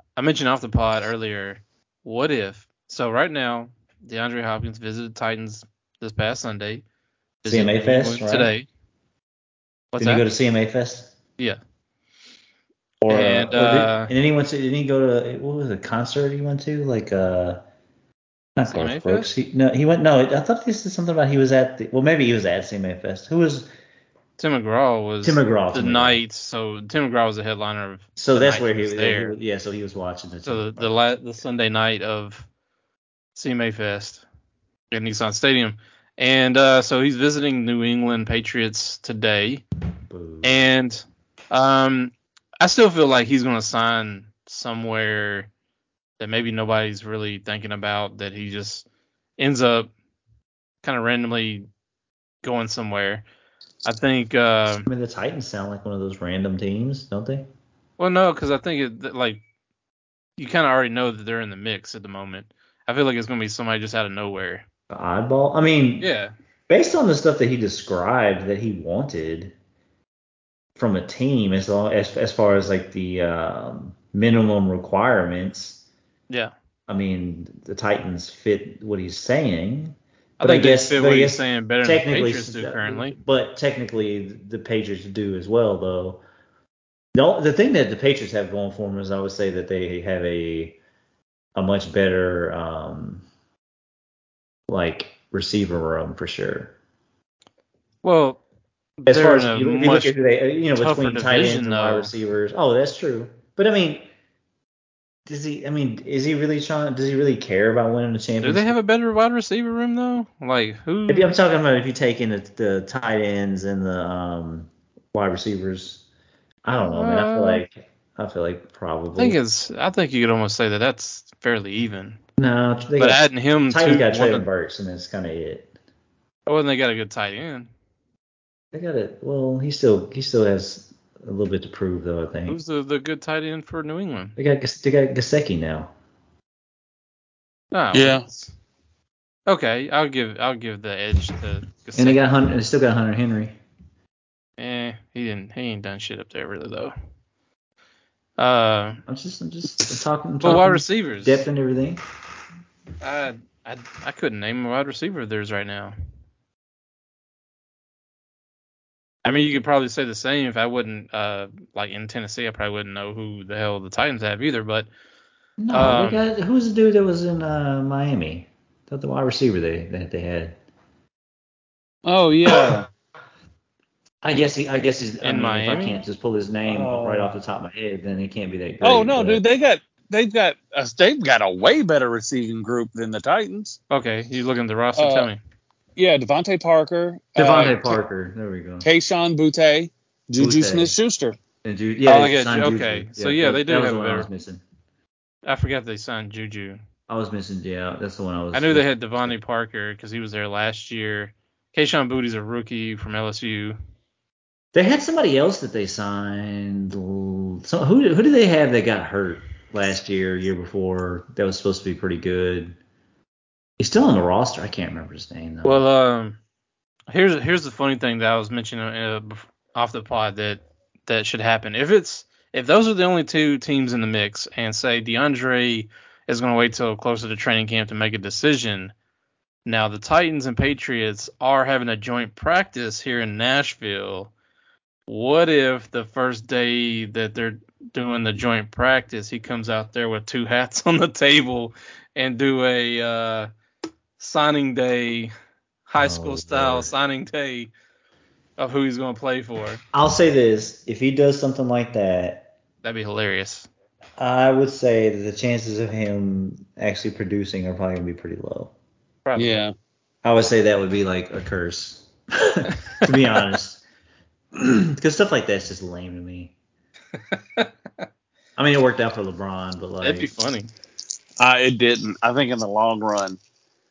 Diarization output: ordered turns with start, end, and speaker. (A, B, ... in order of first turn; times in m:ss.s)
0:00.2-0:06.8 A
0:07.4-0:08.7 A
0:07.5-0:08.5 B
0:09.9-0:10.3 A
0:10.0-0:11.1 B
0:13.0-0:17.6 B
0:13.1-0:14.1 A
0:18.6-0:23.7 B
0:18.7-0:19.3 A
0:24.4-0:29.4 A
0:25.2-0:26.2 B
0:28.2-0:31.0 B
0:30.4-0:32.5 A
0:33.4-0:34.2 A
0:34.9-0:39.6 A
0:40.1-0:40.6 B
0:40.4-0:45.5 A
0:46.2-0:48.9 A
0:49.4-0:49.9 A
0:50.8-0:51.7 A
0:52.4-0:53.2 A
0:53.8-0:54.9 A
0:54.9-0:57.5 B
0:58.0-0:59.4 A
1:00.4-1:04.6 A
1:04.9-1:06.1 B
1:06.0-1:06.3 A
1:06.7-1:09.6 B
1:10.8-1:15.8 B
1:16.9-1:26.2 B
1:20.4-1:23.2 A
1:27.2-1:30.8 B
1:31.6-1:33.2 B
1:34.7-1:36.8 B
1:38.0-1:38.4 A
1:39.0-1:40.2 A
1:39.1-1:44.1 B
1:40.8-1:42.1 A
1:45.3-1:48.8 B
1:48.4-1:51.3 A
1:51.1-1:56.0 B
1:56.6-1:59.4 B
1:56.8-1:57.6 A
1:59.2-2:02.2 A
2:02.4-2:05.7 B
2:03.0-2:04.5 A
2:06.5-2:07.7 A
2:08.7-2:12.6 B
2:12.5-2:14.4 A
2:14.4-2:15.9 B
2:17.7-2:18.5 A
2:17.9-2:18.2 C
2:19.5-2:22.2 A
2:22.0-2:23.6 B
2:24.6-2:26.9 A
2:28.4-2:29.0 A
2:29.1-2:32.0 B
2:30.4-2:31.4 A
2:33.0-2:36.0 A
2:39.2-2:44.9 A
2:45.6-2:50.6 B
2:45.7-2:46.2 A
2:52.0-2:52.9 C
2:52.5-2:52.8 B
2:54.2-2:59.4 B
2:55.2-2:56.0 A
2:56.7-2:57.3 C
2:58.8-3:03.8 C
3:03.9-3:05.4 A
3:05.0-3:05.3 C
3:06.0-3:08.0 C
3:07.4-3:08.9 B
3:08.8-3:11.4 C
3:10.4-3:11.0 B
3:11.6-3:14.6 B
3:12.1-3:14.3 A
3:15.4-3:16.8 A
3:17.1-3:19.3 B
3:18.5-3:23.8 A
3:24.7-3:32.8 B
3:33.8-3:35.8 B
3:35.6-3:36.4 A
3:37.1-3:48.9 A
3:49.6-3:54.3 A
3:55.1-4:03.5 A
4:04.2-4:05.3 A
4:05.9-4:07.7 A
4:06.0-4:06.9 B
4:08.6-4:09.8 A
4:09.9-4:12.5 B
4:12.8-4:13.7 A
4:14.2-4:18.7 B
4:19.2-4:19.7 A
4:19.4-4:19.7 C
4:20.2-4:23.8 B
4:24.5-4:26.5 B
4:27.3-4:27.7 A
4:28.6-4:30.3 B
4:30.0-4:30.7 A
4:31.4-4:33.4 C